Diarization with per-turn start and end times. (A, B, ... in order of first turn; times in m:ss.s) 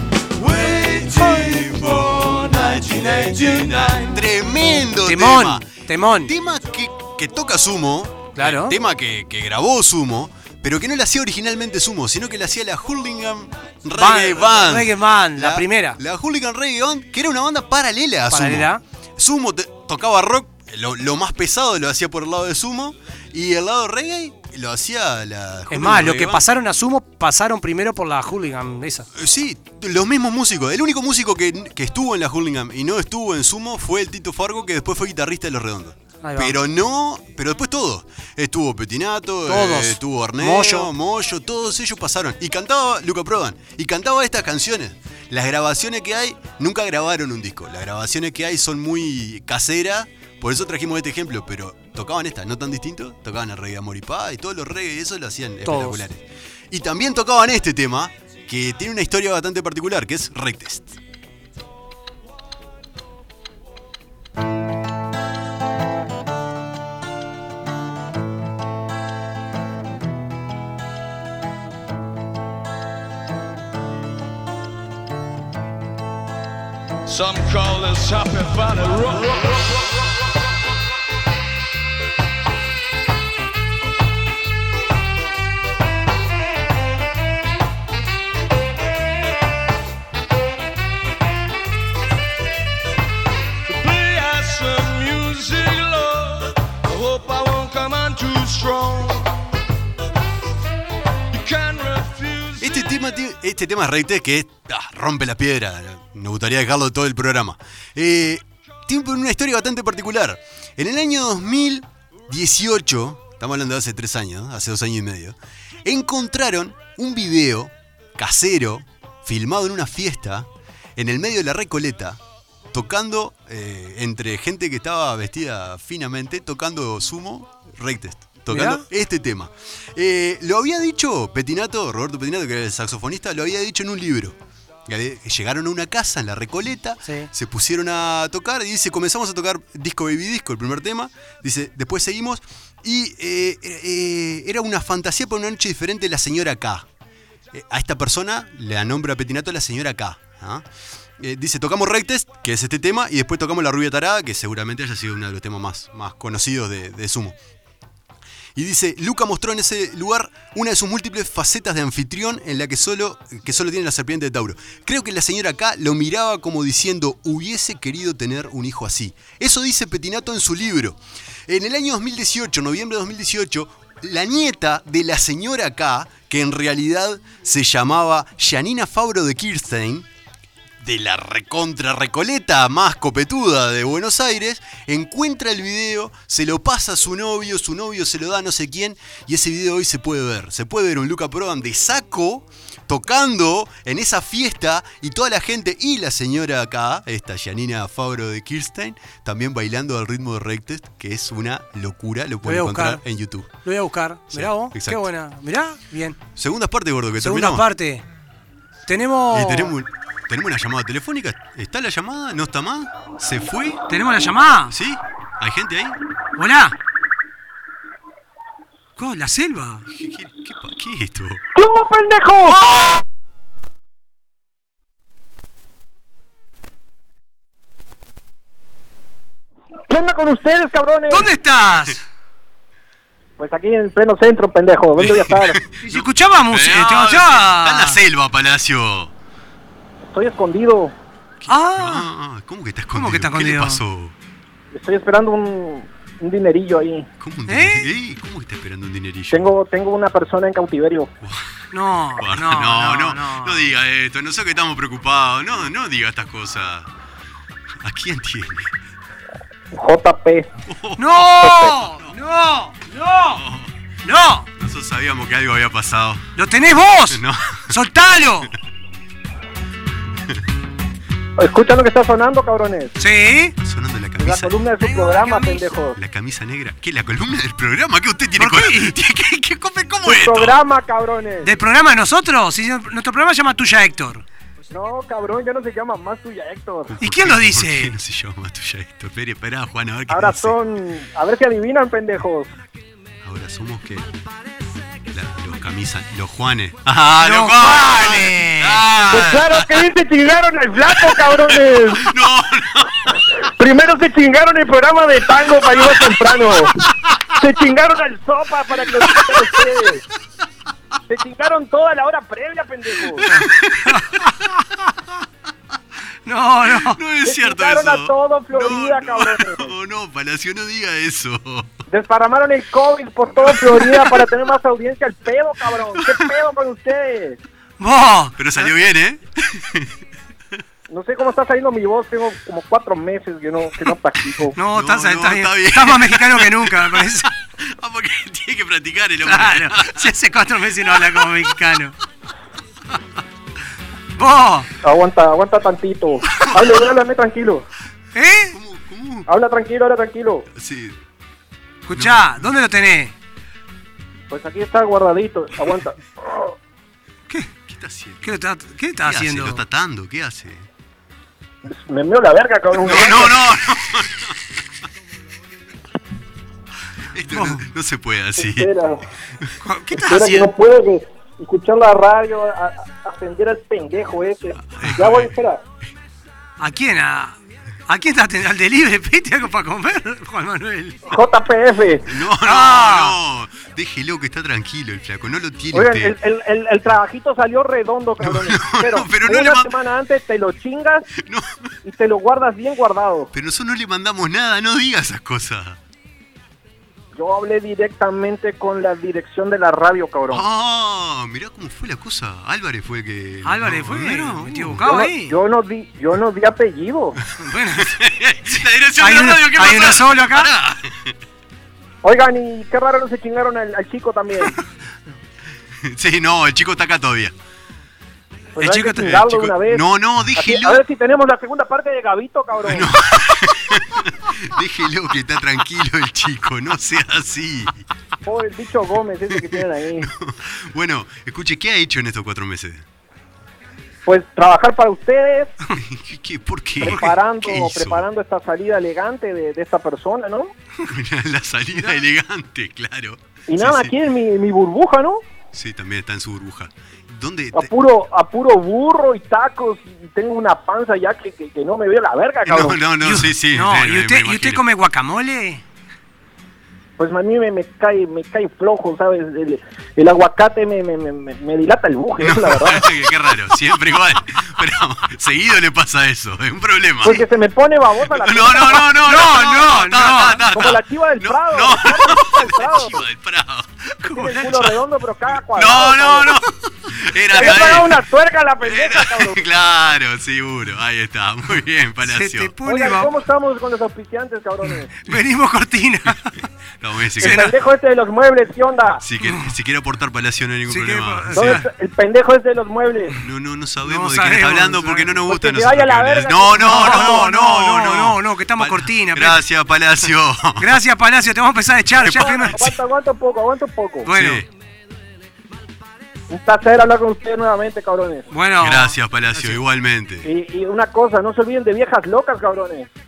0:00.4-0:04.2 A
0:00.4-0:26.4 B
0:05.0-0:06.3 C
0:08.4-0:08.7 C
0:14.0-0:16.0 C
0:18.3-0:18.8 C
0:25.7-0:29.1 C
0:29.1-1:01.0 B
0:36.2-0:36.6 C
0:39.5-0:40.9 C
0:55.6-0:56.0 C
1:17.0-1:19.6 A
1:33.7-1:39.4 A
1:41.3-1:43.0 A
1:42.6-2:02.2 B
2:02.7-2:14.4 B
2:08.5-2:08.8 C
2:14.9-2:26.9 B
2:17.0-2:17.3 C
2:27.5-2:30.6 B
2:31.2-2:37.4 B
2:38.5-3:00.1 B
3:00.8-3:23.5 B
3:22.4-3:23.0 C
3:23.6-3:26.2 C
3:24.3-3:25.1 B
3:26.3-3:27.6 B
3:27.2-3:28.0 C
3:28.9-3:29.7 C
3:29.3-3:33.9 B
3:33.9-3:34.7 C
3:34.7-3:36.0 B
3:36.4-3:36.7 C
3:39.0-3:39.8 C
3:39.9-3:41.4 B
3:41.5-3:42.7 D
3:49.9-3:51.3 D
3:51.1-3:52.0 C
3:53.4-3:55.6 D
3:55.0-3:59.1 B
3:55.8-3:58.0 C
4:00.1-4:00.9 D
4:01.4-4:04.1 B
4:01.5-4:02.1 C
4:02.9-4:03.8 C
4:04.7-4:07.1 D
4:07.2-4:09.5 B
4:07.5-4:07.9 C
4:09.3-4:11.1 D
4:11.7-4:13.6 C
4:12.2-4:16.9 B
4:17.8-4:18.7 B
4:19.7-4:20.5 D
4:20.7-4:22.0 B
4:21.0-4:23.4 C
4:21.4-4:21.7 D
4:23.3-4:23.7 B
4:24.0-4:24.5 C
4:24.6-4:26.3 B
4:26.4-4:28.5 C
4:27.1-4:27.7 B
4:31.4-4:32.9 D
4:33.0-4:33.5 C
4:33.6-4:35.4 B
4:34.2-4:36.0 D
4:35.0-4:35.5 C
4:35.9-4:40.6 B
4:38.4-4:38.9 C
4:40.0-4:41.5 D
4:41.4-4:44.2 C
4:44.7-4:46.9 D
4:46.9-4:50.6 B
4:47.0-4:47.9 C
4:50.1-4:52.5 D
4:53.2-4:54.1 B
4:55.1-4:59.8 B
4:57.2-4:58.8 C
4:59.1-5:02.1 D
5:00.8-5:03.2 B
5:03.4-5:06.7 D
5:05.6-5:06.5 B
5:07.3-5:10.0 D
5:08.8-5:09.8 B
5:11.1-5:13.2 D
5:13.2-5:14.0 B
5:13.3-5:14.6 C
5:16.2-5:17.0 C
5:16.7-5:21.7 B
5:17.2-5:19.7 D
5:21.9-5:27.4 D
5:23.4-5:24.2 B
5:25.9-5:26.2 B
5:27.8-5:28.7 C
5:28.4-5:29.9 B
5:30.9-5:34.6 D
5:34.6-5:37.3 C
5:34.6-5:40.1 B
5:39.2-5:41.9 C
5:40.8-5:41.5 B
5:44.2-5:44.7 C
5:44.8-5:47.6 D
5:46.3-5:46.7 B
5:48.1-5:48.6 C
5:48.5-5:49.3 B
5:49.3-5:50.4 D
5:50.5-5:51.0 B
5:51.9-5:53.1 C
5:51.9-5:52.4 B
5:54.3-5:56.5 D
5:57.6-5:58.4 B
5:58.2-5:59.6 C
5:59.0-6:00.7 B
6:01.7-6:03.4 D
6:02.7-6:04.4 B
6:07.1-6:08.7 B
6:07.3-6:07.6 C
6:08.4-6:09.0 D
6:09.6-6:10.5 C
6:10.0-6:15.6 D
6:14.7-6:15.3 B
6:16.6-6:17.4 C
6:17.9-6:21.1 C
6:21.1-6:22.1 D
6:22.0-6:26.2 B
6:22.4-6:23.2 C
6:25.7-6:31.1 D
6:28.2-6:29.7 B
6:31.2-6:31.7 B
6:31.8-6:33.3 D
6:33.3-6:35.8 B
6:37.1-6:40.4 D
6:40.3-6:44.9 B
6:43.4-6:45.4 C
6:44.8-6:47.2 D
6:47.4-6:47.9 C
6:47.7-6:51.1 B
6:49.0-6:50.5 C
6:52.0-6:54.6 D
6:55.8-6:57.3 B
6:58.6-6:59.8 D
6:58.6-6:59.2 C
6:59.0-7:00.8 B
7:00.4-7:02.9 D
7:02.6-7:07.8 B
7:08.2-7:10.1 D
7:09.4-7:12.8 B
7:14.0-7:15.5 D
7:15.7-7:18.0 B
7:16.8-7:20.5 D
7:20.8-7:23.9 B
7:23.5-7:25.2 D
7:25.5-7:27.7 B
7:27.5-7:32.8 D
7:32.4-7:34.6 B
7:33.0-7:35.6 C
7:37.0-7:42.9 D
7:42.2-7:47.2 B
7:47.0-7:48.9 D
7:48.1-7:54.7 B
7:48.9-7:50.4 C
7:50.5-7:53.1 D
7:54.0-7:56.4 D
7:55.5-7:58.0 B
7:57.3-7:59.4 D
7:57.4-7:57.8 C
7:58.6-8:02.6 B
8:02.0-8:03.1 C
8:02.6-8:04.9 D
8:04.9-8:06.4 C
8:06.8-8:07.5 B
8:07.2-8:09.0 D
8:07.2-8:07.5 C
8:09.0-8:11.6 B
8:09.2-8:09.5 C
8:10.7-8:11.7 C
8:11.3-8:13.2 D
8:13.2-8:20.7 B
8:13.8-8:15.1 C
8:15.2-8:17.2 D
8:16.6-8:19.4 C
8:20.6-8:22.7 C
8:22.0-8:22.7 B
8:22.1-8:24.1 D
8:24.0-8:24.4 C
8:24.1-8:24.5 B
8:26.3-8:28.3 D
8:28.3-8:29.6 C
8:28.6-8:30.3 B
8:30.2-8:32.9 D